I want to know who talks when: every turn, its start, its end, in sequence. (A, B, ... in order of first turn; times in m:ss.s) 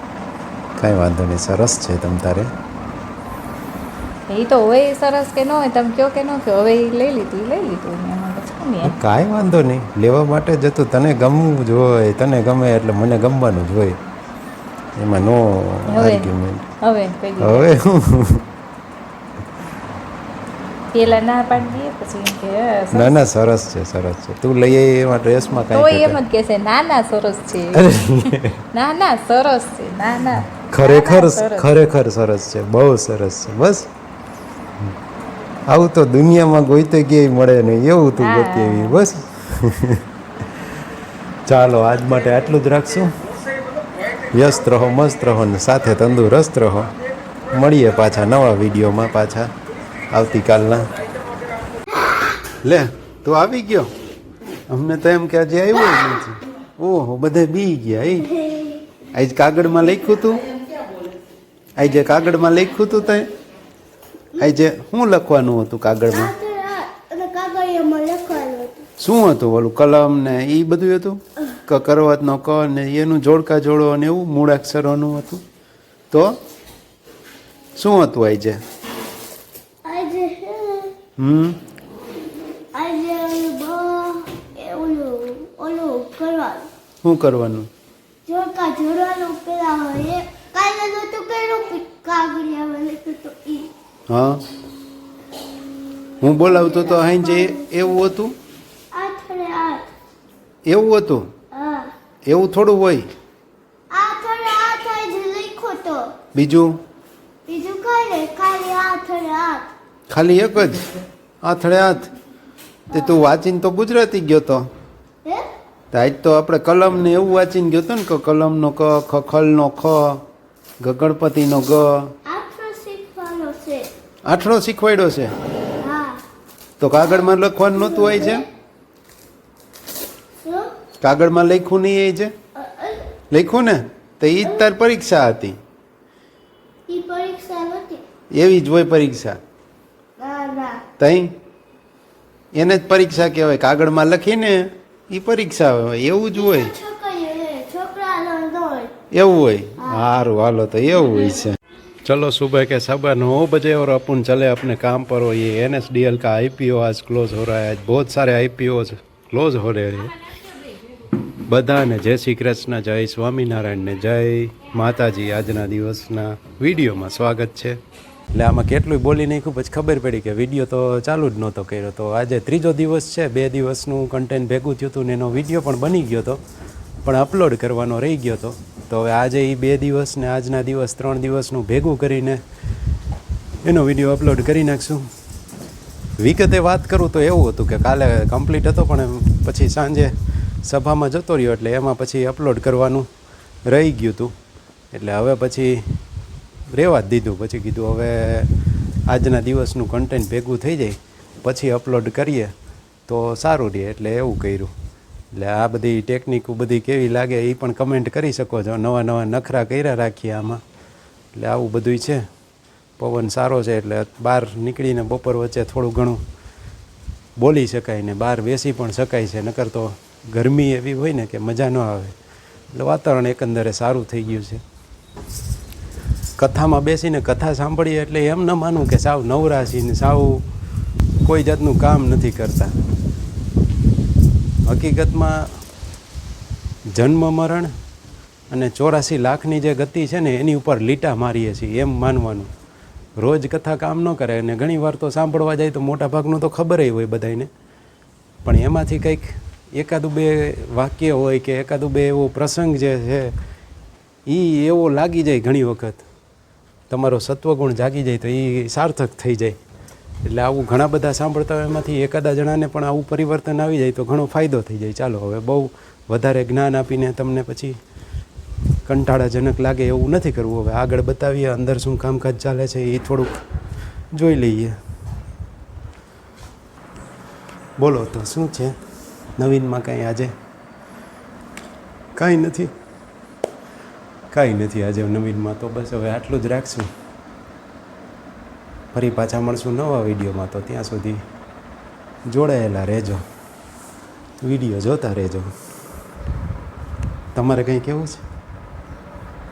0:00.8-0:02.5 A
0:04.3-0:09.0 B
0:08.8-0:14.0 A
0:15.0-0:16.7 A
0:15.9-0:16.3 B
0:16.8-0:17.7 B
0:17.4-0:18.4 A
0:20.9-0:23.2 B
0:22.9-0:26.2 A
0:25.7-0:31.7 B
0:27.7-0:28.6 A
0:30.7-0:33.9 A
0:35.7-0:40.0 A
0:38.2-0:39.0 B
0:41.5-0:43.1 A
0:44.3-0:46.9 A
0:47.5-0:49.5 A
0:50.1-0:50.9 A
0:52.6-0:53.9 A
0:54.7-0:58.3 A
0:58.2-0:58.8 C
0:59.1-1:00.4 A
1:01.8-1:03.3 A
1:04.4-1:06.3 A
1:06.1-1:08.8 C
1:09.0-1:15.4 A
1:17.8-1:18.6 A
1:19.8-1:21.0 C
1:21.2-1:21.6 A
1:22.7-1:26.7 C
1:27.0-1:27.7 A
1:28.2-1:33.7 C
1:34.1-1:34.4 A
1:36.2-1:38.3 A
1:36.4-1:37.9 C
1:38.9-1:39.8 C
1:40.6-1:41.3 A
1:41.5-1:41.9 C
1:42.2-1:43.1 A
1:43.9-1:46.1 C
1:46.3-1:46.8 A
1:47.5-1:49.7 C
1:50.1-1:50.9 A
1:51.4-1:52.1 A
1:52.9-1:53.2 C
1:52.9-1:54.6 A
1:55.9-2:00.2 A
2:00.8-2:02.1 A
2:02.2-2:03.9 C
2:04.3-2:05.3 A
2:05.8-2:06.2 C
2:06.8-2:08.4 A
2:07.0-2:08.4 C
2:10.4-2:10.7 C
2:11.0-2:12.3 A
2:12.5-2:13.1 C
2:13.3-2:15.6 A
2:16.9-2:18.0 C
2:18.4-2:19.4 A
2:20.2-2:20.8 C
2:21.0-2:21.3 A
2:22.5-2:26.7 A
2:26.3-2:28.9 C
2:29.1-2:31.5 A
2:32.0-2:40.1 A
2:41.5-2:47.8 A
2:48.3-2:56.4 A
2:57.0-3:02.4 A
3:03.6-3:05.0 A
3:06.2-3:10.1 A
3:10.6-3:13.1 A
3:13.6-3:14.3 A
3:14.9-3:15.8 A
3:16.7-3:18.5 A
3:19.1-3:22.5 A
3:23.1-3:24.7 A
3:25.3-3:30.6 A
3:31.3-3:32.2 A
3:33.0-3:36.2 A
3:37.4-3:42.1 A
3:42.7-3:44.6 A
3:46.4-3:50.4 A
3:51.2-3:52.7 A
3:54.6-3:55.5 A
3:56.9-3:57.7 A
3:58.5-4:02.5 A
4:03.2-4:07.5 A
4:08.4-4:13.3 A
4:14.3-4:16.0 A
4:16.9-4:19.6 A
4:20.2-4:27.8 A
4:28.9-4:33.4 A
4:34.1-4:34.8 A
4:37.8-4:38.7 A
4:39.4-4:40.3 A
4:42.2-4:42.7 A
4:44.3-4:46.9 A
4:48.9-4:51.2 A
4:52.3-4:53.2 A
4:54.4-4:55.5 A
4:57.3-4:58.2 A